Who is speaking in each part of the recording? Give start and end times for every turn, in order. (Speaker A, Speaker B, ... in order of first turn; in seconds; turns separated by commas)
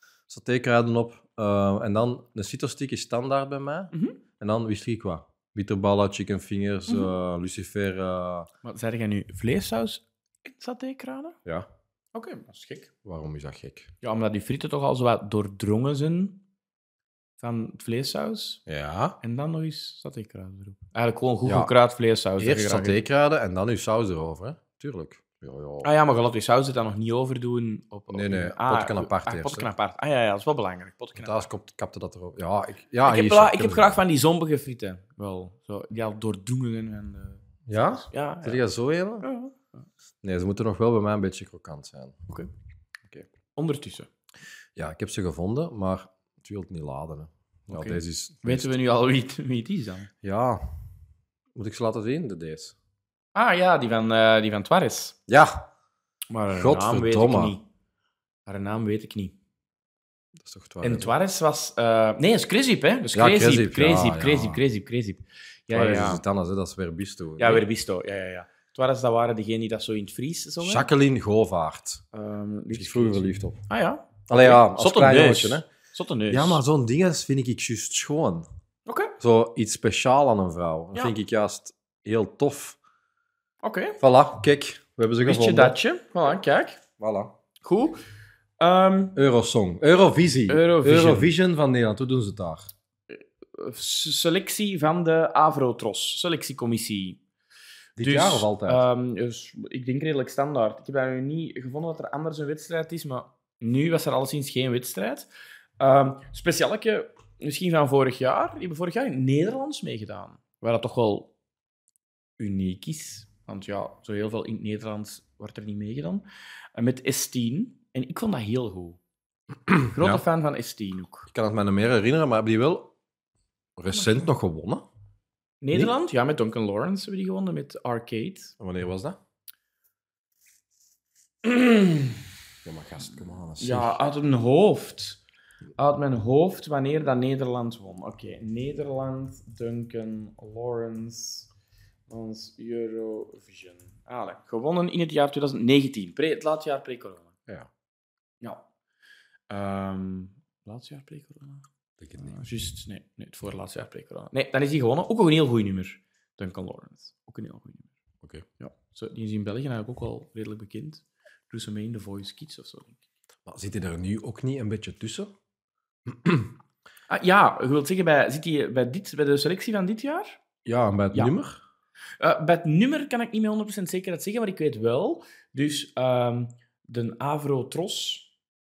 Speaker A: 0.3-8.5, Speaker B: 3.9-4.2, Speaker B: 8.6-11.4, Speaker B: 12.1-12.9, Speaker A: 13.1-13.9, Speaker B: 14.0-16.4, Speaker B: 17.4-18.6, Speaker A: 18.7-19.2, Speaker B: 19.2-23.0, Speaker A: 21.4-21.7, Speaker A: 22.4-25.9, Speaker B: 25.8-31.5, Speaker A: 28.1-29.7, Speaker A: 31.2-34.0, Speaker B: 33.0-38.6, Speaker A: 37.7-39.3, Speaker B: 39.2-39.7, Speaker A: 40.2-42.3, Speaker B: 43.5-44.1, Speaker A: 44.8-48.8, Speaker B: 47.7-50.1, Speaker A: 50.2-50.6, Speaker A: 51.6-52.8, Speaker B: 53.4-55.2, Speaker A: 55.3-55.7, Speaker B: 56.3-57.6, Speaker A: 56.5-57.6, Speaker B: 58.5-59.3, Speaker A: 60.4-61.1, Speaker B: 60.8-66.2, Speaker A: 63.1-64.6, Speaker A: 65.7-67.7, Speaker B: 67.4-70.9, Speaker A: 70.6-72.0, Speaker B: 72.1-76.6, Speaker A: 72.7-73.6, Speaker A: 74.3-75.7, Speaker A: 76.3-78.5, Speaker B: 78.9-79.2, Speaker A: 79.2-82.8, Speaker B: 83.6-84.0, Speaker A: 84.0-85.8, Speaker B: 85.2-86.8, Speaker A: 87.0-87.3, Speaker B: 87.6-88.0, Speaker B: 88.6-89.2, Speaker A: 89.2-92.7, Speaker B: 90.5-91.3, Speaker B: 93.1-97.2, Speaker A: 98.0-98.9, Speaker B: 98.0-105.3, Speaker B: 105.8-111.3, Speaker B: 112.4-119.0, Speaker A: 119.7-120.2, Speaker B: 119.9-121.3, Speaker A: 121.3-122.9, Speaker A: 123.8-124.9, Speaker B: 123.9-124.2, Speaker B: 125.6-128.6, Speaker A: 128.6-129.2, Speaker B: 131.4-132.2, Speaker A: 132.7-134.0, Speaker B: 133.6-135.2, Speaker B: 135.8-141.5, Speaker B: 142.1-147.3, Speaker B: 149.5-151.7, Speaker A: 152.0-152.4, Speaker B: 152.2-157.9, Speaker B: 158.6-163.0, Speaker A: 163.5-165.3, Speaker A: 166.1-166.6, Speaker B: 167.1-170.4, Speaker A: 170.7-171.6, Speaker B: 172.2-178.3